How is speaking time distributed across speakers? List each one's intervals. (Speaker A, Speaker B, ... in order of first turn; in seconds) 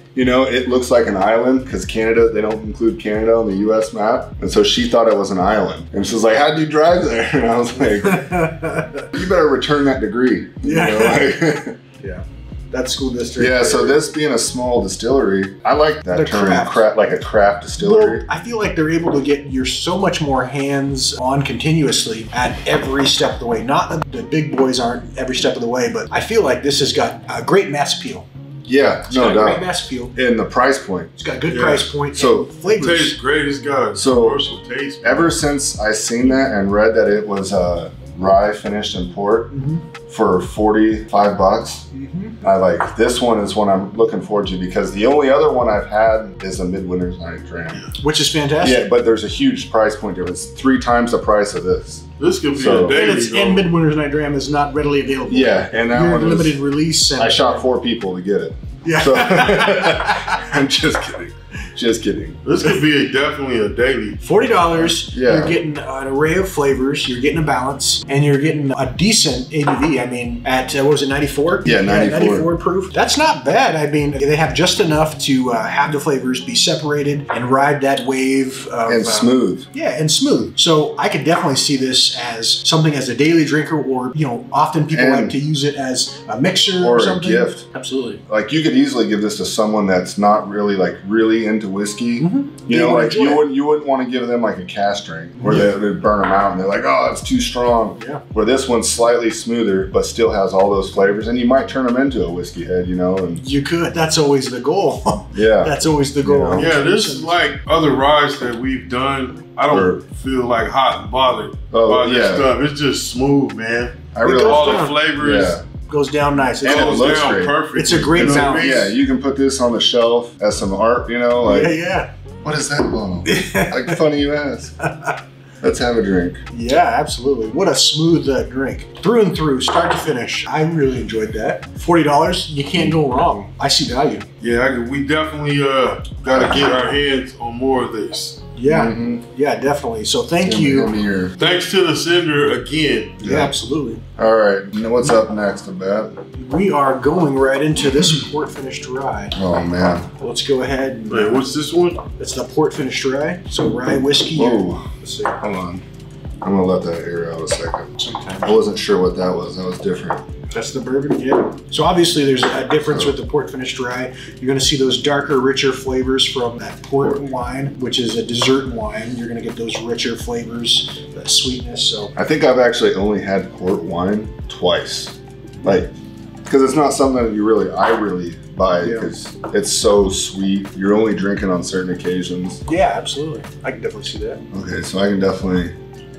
Speaker A: 0.1-8.6, 9.1-11.8, 13.4-18.2, 28.6-31.1, 32.1-32.5, 34.0-34.4, 35.0-39.5, 40.1-41.9, 42.4-47.8, 48.6-53.0, 55.3-56.6, 57.2-62.4, 64.7-65.6, 71.7-72.5, 78.9-79.7, 84.9-85.4, 86.8-87.7, 88.3-103.4, 105.3-106.7, 109.7-110.0, 111.7-112.5, 114.1-115.6, 116.6-121.8, 122.4-124.8, 125.6-126.4, 136.3-136.6, 138.7-139.2, 140.4-141.4, 143.2-143.5, 144.2-146.1, 149.4-150.1, 154.3-154.9, 155.4-155.8, 156.4-160.3, 162.9-163.1, 172.2-175.9, 176.5-182.6, 184.5-185.7
Speaker B: 8.0-9.1, 10.6-11.4, 12.0-14.0, 16.1-16.8, 17.8-28.3, 29.1-30.1, 31.2-33.1, 39.5-39.8, 41.9-42.4, 48.0-48.9, 52.7-57.6, 58.8-60.5, 64.2-88.2, 92.2-93.5, 95.4-95.8, 103.4-107.4, 114.2-115.0, 115.9-118.8, 121.4-122.1, 123.2-124.0, 124.8-125.2, 126.5-134.3, 138.6-141.6, 143.2-144.0, 146.3-149.4, 150.2-151.4, 152.2-155.4, 158.0-158.6, 160.5-172.1, 178.8-179.1, 182.7-184.4
Speaker C: 31.5-31.9, 32.7-35.3, 52.2-53.7, 62.5-64.2, 106.5-115.6, 116.6-118.9, 134.4-138.5, 141.4-143.2, 151.1-152.0